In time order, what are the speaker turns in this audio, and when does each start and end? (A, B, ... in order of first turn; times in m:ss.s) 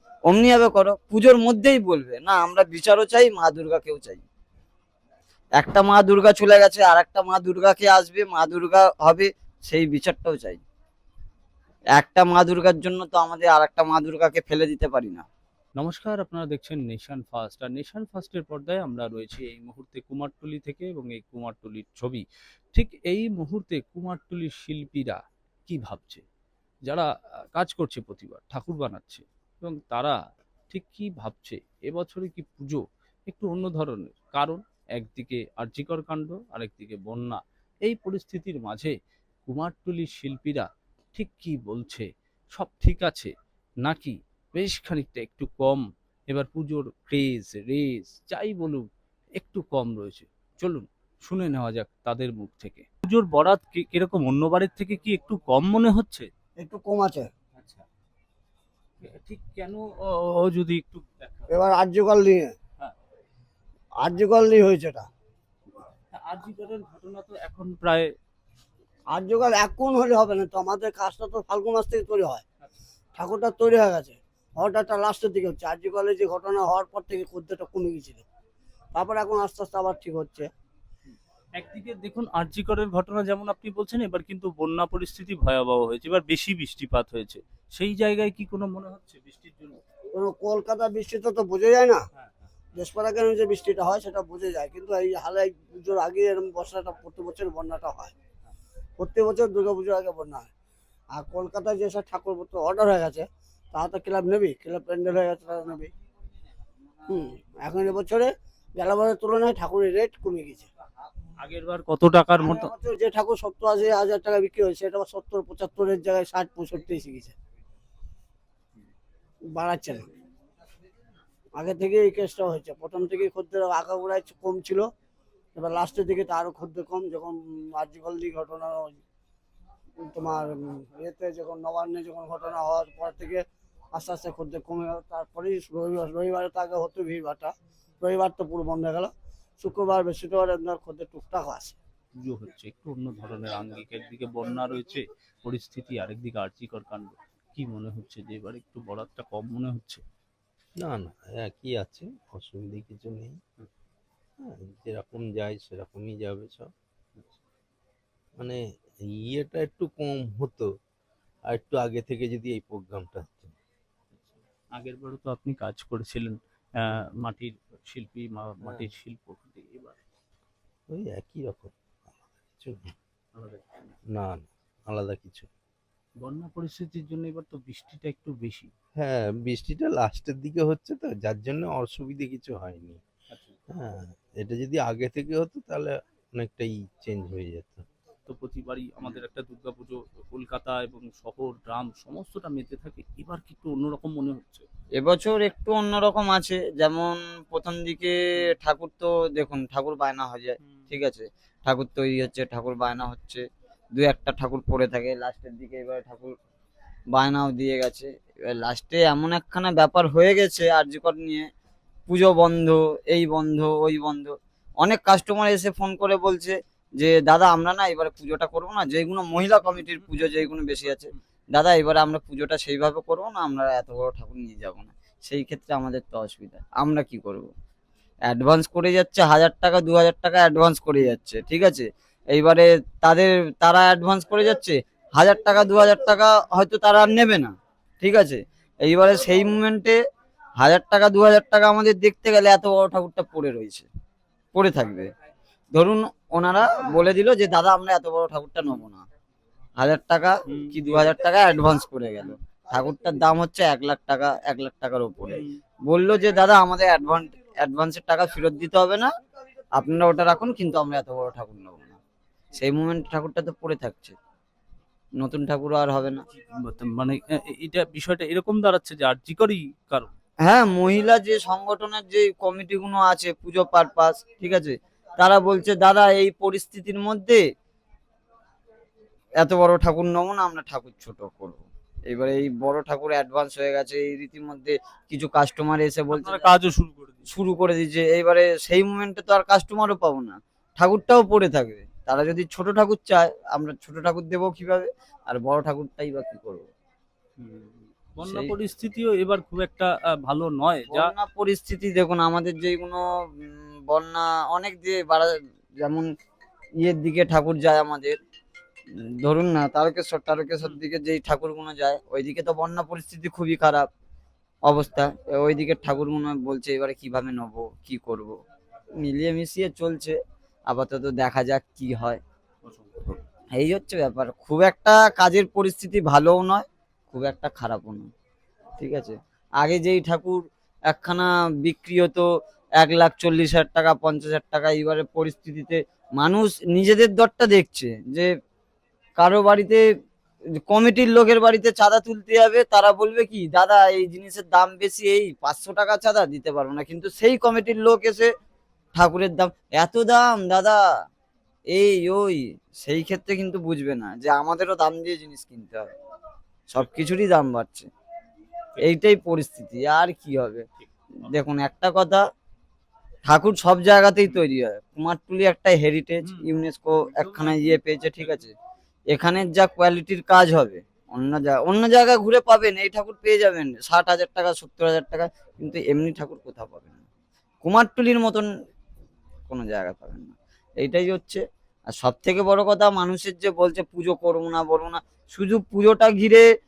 0:00.3-0:04.2 A
0:05.6-0:10.6 A
0:12.0-0:15.2 A
0:15.8-0:22.2 B
0:22.7-0:26.2 B
0:26.9-0:30.2 B
0:30.7-0:38.9 B
0:39.5-0:43.3 B
0:43.8-0:56.3 B
0:56.6-0:57.3 C
0:57.5-0:57.8 B
0:59.0-1:01.5 B
1:01.5-1:02.6 C
1:04.0-1:05.1 C
1:06.1-1:08.1 B
1:09.1-1:12.4 C
1:13.2-1:18.2 C
1:18.9-1:20.5 C
1:21.1-1:29.8 B
1:30.1-1:32.0 C
1:32.2-1:32.5 B
1:32.7-1:38.1 C
1:39.0-1:40.5 C
1:41.1-1:45.9 C
1:47.1-1:50.7 C
1:51.4-1:52.7 B
1:52.4-1:57.3 C
1:59.5-2:00.1 C
2:01.6-2:04.9 C
2:05.6-2:09.0 C
2:10.0-2:21.8 C
2:22.2-2:30.0 B
2:30.8-2:33.4 D
2:34.4-2:36.7 D
2:38.4-2:40.7 D
2:41.5-2:43.5 D
2:44.1-2:50.0 B
2:48.6-2:48.9 D
2:50.9-2:52.9 D
2:53.3-2:54.0 B
2:54.1-2:55.5 D
2:56.2-2:58.7 B
2:59.0-3:03.0 D
3:03.3-3:03.6 B
3:03.7-3:07.8 D
3:08.2-3:14.7 B
3:15.0-3:23.4 A
3:20.6-3:20.9 B
3:24.0-3:26.3 A
3:27.1-3:31.5 A
3:32.1-3:47.5 A
3:39.8-3:41.2 B
3:48.3-4:00.0 A
4:00.6-4:03.8 A
4:04.5-4:05.1 A
4:05.7-4:09.0 A
4:09.8-4:19.1 A
4:10.5-4:11.1 B
4:15.3-4:15.6 B
4:19.8-4:22.0 A
4:22.5-4:24.1 A
4:25.2-4:26.2 A
4:26.3-4:30.1 B
4:30.4-4:37.4 A
4:39.4-4:46.5 A
4:46.1-4:47.3 B
4:47.3-4:56.7 A
4:57.4-5:01.1 B
4:58.2-4:58.5 A
5:00.9-5:06.1 A
5:06.8-5:08.2 A
5:09.2-5:13.9 A
5:14.7-5:18.4 A
5:19.0-5:20.2 A
5:20.7-5:22.2 A
5:22.6-5:23.1 B
5:23.5-5:28.1 A
5:28.8-5:32.3 A
5:32.8-5:38.3 A
5:39.2-5:39.8 A
5:40.7-5:48.3 A
5:49.0-5:50.8 A
5:51.7-5:55.9 A
5:56.7-5:57.9 A
5:58.8-6:00.6 A
6:01.2-6:02.2 A
6:03.3-6:08.5 A
6:06.2-6:08.4 B
6:09.1-6:17.0 A
6:17.6-6:18.5 A
6:19.5-6:21.4 A
6:21.9-6:26.4 A